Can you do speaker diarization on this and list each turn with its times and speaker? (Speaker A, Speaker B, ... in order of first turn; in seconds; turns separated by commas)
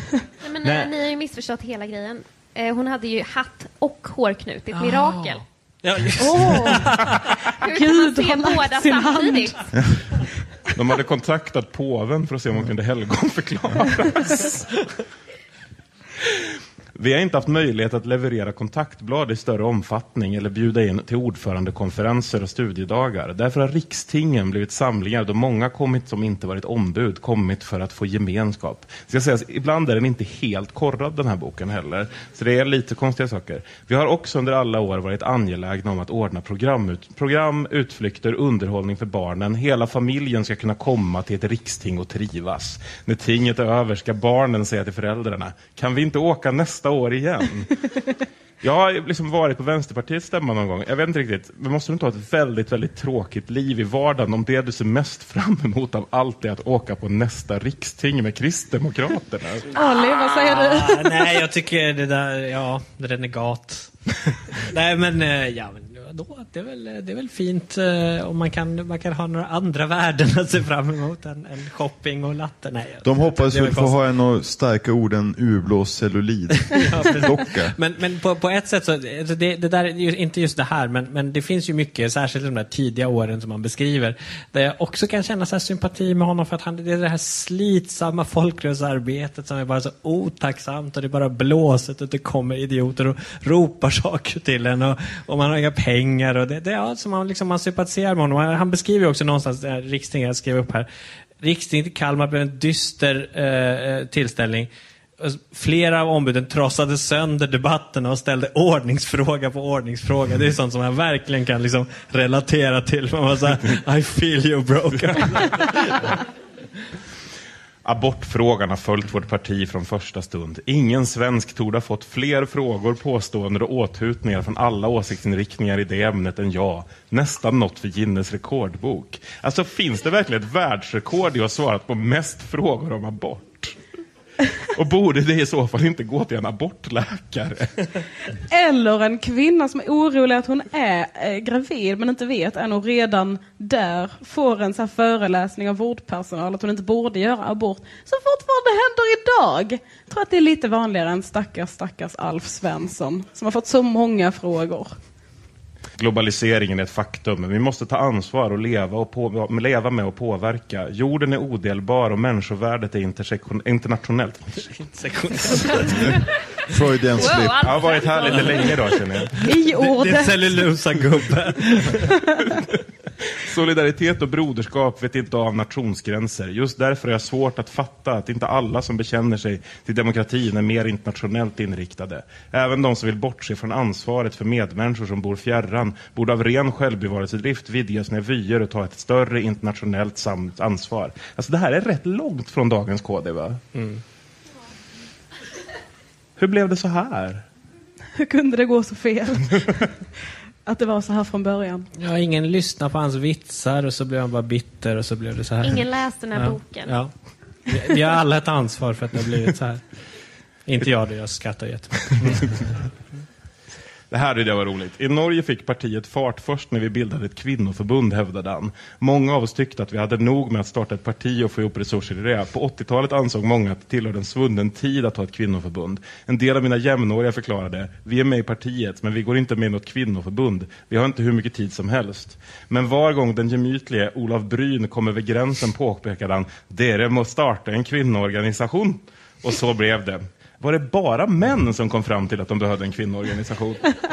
Speaker A: 0.4-5.4, Speaker B: 0.6-0.9, Speaker B: 4.7-7.4, Speaker C: 6.2-7.0, Speaker A: 7.6-9.6, Speaker C: 7.6-9.6, Speaker D: 10.7-14.7, Speaker D: 16.2-47.7, Speaker D: 48.6-59.7, Speaker C: 59.7-61.2, Speaker B: 59.8-63.9, Speaker B: 64.5-74.0, Speaker E: 73.0-77.8, Speaker B: 76.8-100.9, Speaker B: 101.4-104.7, Speaker B: 105.2-116.2, Speaker D: 117.8-133.8, Speaker D: 134.7-137.9, Speaker C: 138.5-154.9, Speaker D: 156.0-164.6, Speaker B: 164.6-166.2, Speaker E: 166.7-167.9, Speaker A: 167.1-169.0, Speaker D: 167.6-169.5, Speaker B: 169.4-172.2, Speaker C: 169.4-170.5, Speaker C: 172.2-172.4, Speaker D: 172.7-193.6, Speaker B: 193.8-194.0, Speaker D: 196.4-197.4, Speaker C: 198.2-199.9, Speaker C: 200.7-201.9, Speaker B: 202.0-207.1, Speaker A: 205.6-206.9, Speaker B: 207.7-209.8, Speaker B: 210.7-212.7, Speaker D: 214.1-243.8